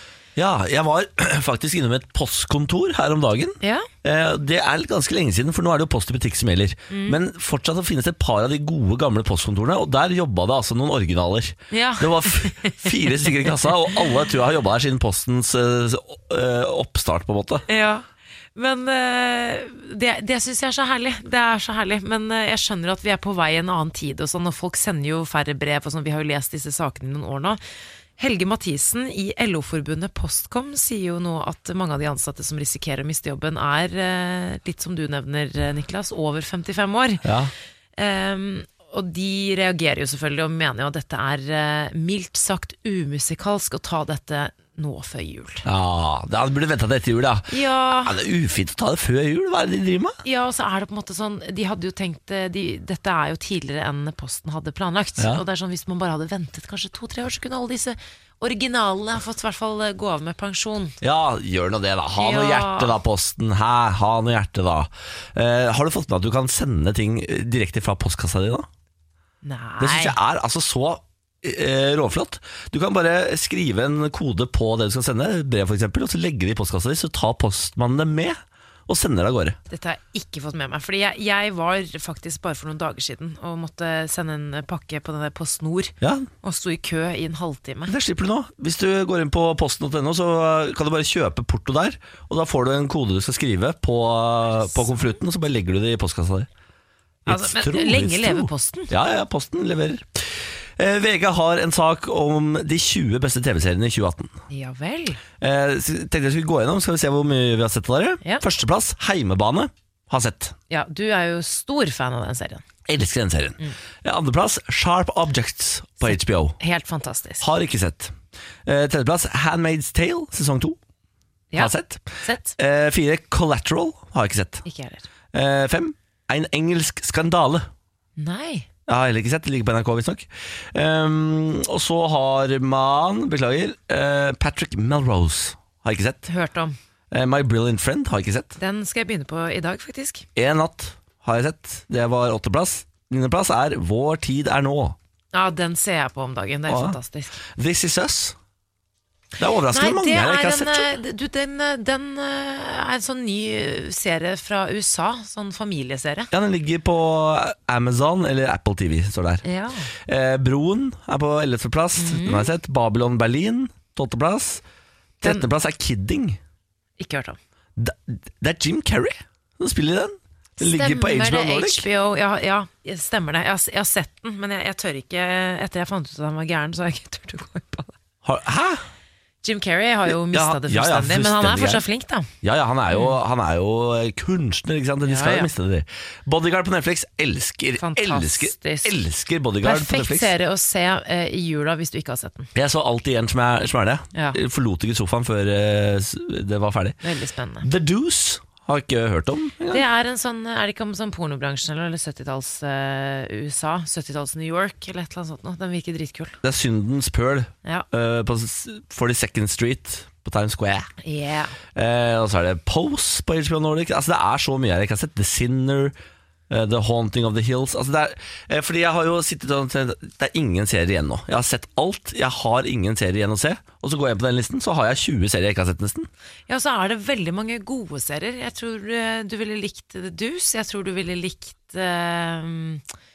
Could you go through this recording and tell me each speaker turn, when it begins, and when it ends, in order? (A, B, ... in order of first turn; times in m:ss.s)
0:00.4-0:17.6 A
0:03.6-0:03.9 B
0:06.9-0:07.2 B
0:11.7-0:14.1 B
0:17.7-0:27.6 B
0:28.2-0:37.2 B
0:37.2-0:37.5 A
0:38.0-0:45.6 B
0:45.6-0:50.1 A
0:47.5-0:48.2 B
0:50.2-1:01.0 B
1:01.0-1:08.7 A
1:02.2-1:03.0 B
1:09.4-1:10.2 B
1:09.8-1:19.6 A
1:19.7-1:27.9 B
1:26.0-1:26.3 A
1:27.9-1:36.5 A
1:34.5-1:35.2 B
1:37.2-1:44.3 A
1:37.3-1:38.9 B
1:44.5-1:45.2 B
1:45.4-1:50.5 A
1:50.7-1:52.6 B
1:52.8-1:56.6 A
1:56.0-1:57.4 B
1:57.4-1:58.1 A
1:58.6-2:00.8 A
2:01.5-2:02.6 B
2:01.6-2:04.6 A
2:04.6-2:05.1 B
2:05.3-2:07.7 A
2:08.2-2:08.7 B
2:08.9-2:16.2 A
2:16.2-2:16.8 B
2:17.1-2:18.6 A
2:18.6-2:20.2 B
2:20.3-2:25.0 A
2:25.3-2:27.4 B
2:26.7-2:27.0 A
2:27.5-2:28.4 A
2:29.4-2:30.9 A
2:29.7-2:36.3 B
2:36.3-2:39.4 A
2:39.4-2:39.9 B
2:40.0-2:44.6 A
2:42.0-2:42.5 B
2:45.2-2:46.4 A
2:47.0-2:47.4 B
2:47.8-2:51.9 A
2:50.6-2:57.9 B
2:58.2-2:58.8 A
2:59.4-3:02.3 B
3:00.1-3:01.8 A
3:02.4-3:10.3 A
3:02.9-3:03.2 B
3:05.0-3:05.5 B
3:07.8-3:08.9 B
3:09.6-3:12.5 B
3:12.5-3:17.0 A
3:17.0-3:17.7 B
3:17.6-3:19.8 A
3:19.7-3:26.4 B
3:26.4-3:30.9 A
3:31.0-3:31.6 B
3:31.7-3:35.9 A
3:36.5-3:46.1 A
3:46.5-3:52.8 B